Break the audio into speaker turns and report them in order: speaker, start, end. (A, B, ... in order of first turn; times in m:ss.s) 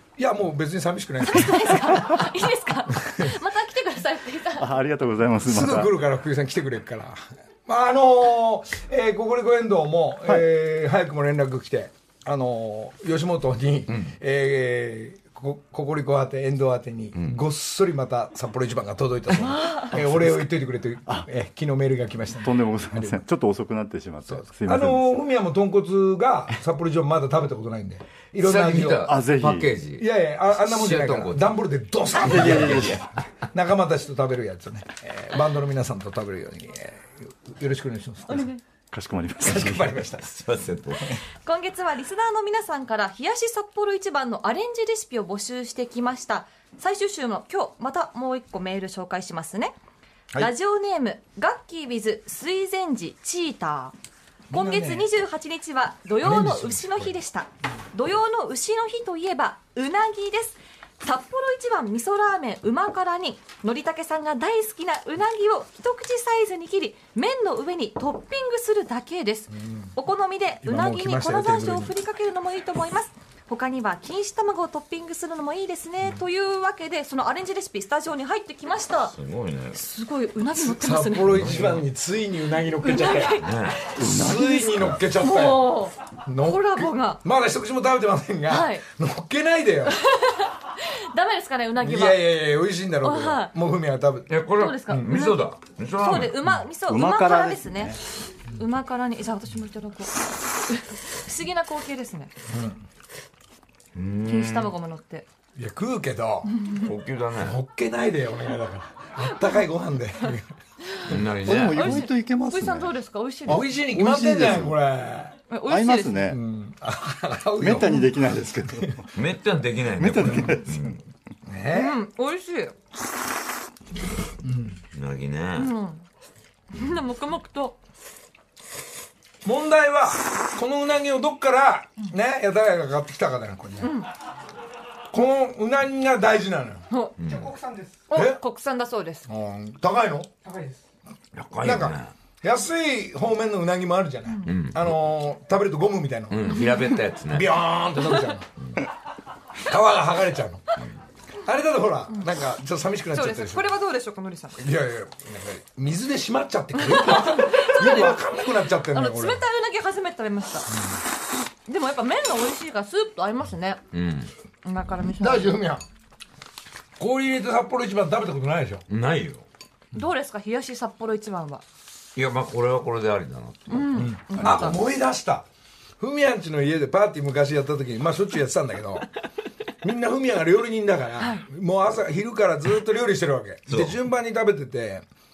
0:00.2-0:01.9 A
0:01.2-0:04.7 B
0:03.0-0:03.3 A
0:04.6-0:05.9 C
0:05.4-0:23.2 A
0:13.9-0:14.1 D
0:17.2-0:17.4 D
0:19.4-0:20.0 B
0:20.0-0:20.4 C
0:22.4-0:25.2 C
0:24.3-0:29.1 A
0:28.4-0:31.6 D
0:29.0-0:29.7 C
0:30.0-0:38.5 A
0:32.2-0:33.0 C
0:32.2-0:33.1 D
0:38.3-0:38.6 B
0:38.9-0:40.1 C
0:39.4-0:40.3 A
0:40.3-0:41.2 D
0:41.4-0:49.7 B
0:50.4-0:53.9 B
0:54.5-0:55.1 A
0:54.5-1:19.2 B
0:56.2-0:57.1 A
1:09.5-1:09.9 A
1:10.6-1:12.0 A
1:19.1-1:19.8 D
1:19.7-1:21.6 B
1:20.6-1:30.0 A
1:21.3-1:21.8 D
1:22.8-1:23.6 B
1:23.4-1:24.0 D
1:24.0-1:25.0 C
1:25.2-1:27.2 B
1:28.5-1:28.8 B
1:30.0-1:32.2 B
1:31.8-1:34.3 A
1:33.0-1:33.5 B
1:34.3-1:36.4 D
1:34.6-1:35.4 B
1:36.0-1:42.3 B
1:36.9-1:38.0 C
1:42.5-1:42.8 A
1:44.0-1:44.8 D
1:44.2-1:45.3 B
1:45.6-1:46.6 A
1:46.7-1:47.6 D
1:47.4-1:50.5 A
1:51.1-1:52.0 D
1:51.1-1:54.8 C
1:51.7-1:53.6 B
1:53.5-1:55.4 A
1:55.5-1:56.3 B
1:55.7-1:56.4 C
1:56.3-1:58.2 A
1:57.6-1:59.1 C
1:58.7-1:59.0 A
1:59.2-2:01.0 D
2:00.0-2:01.0 C
2:01.4-2:02.0 A
2:01.7-2:02.8 B
2:04.4-2:04.8 A
2:04.9-2:05.7 D
2:05.6-2:06.0 B
2:06.7-2:07.8 B
2:09.4-2:14.0 A
2:13.8-2:14.1 B
2:15.1-2:18.4 A
2:16.9-2:17.2 B
2:17.2-2:17.5 D
2:18.1-2:19.3 B
2:19.3-2:20.8 A
2:21.3-2:22.1 D
2:21.6-2:26.6 A
2:24.5-2:24.9 D
2:26.3-2:27.6 D
2:27.3-2:28.5 A
2:29.6-2:30.8 A
2:31.5-2:33.8 A
2:33.1-2:34.6 B
2:34.6-2:39.4 A
2:36.8-2:40.7 B
2:40.7-2:41.0 A
2:41.6-2:43.8 B
2:43.9-2:44.3 D
2:44.6-2:45.5 B
2:45.2-2:45.8 A
2:47.0-2:48.8 A
2:48.9-2:49.5 D
2:49.9-2:51.6 B
2:52.2-2:54.7 D
2:53.7-2:54.8 B
2:54.0-2:55.5 A
2:56.0-2:59.1 A
2:59.8-3:05.0 A
3:01.2-3:01.4 B
3:03.7-3:04.0 D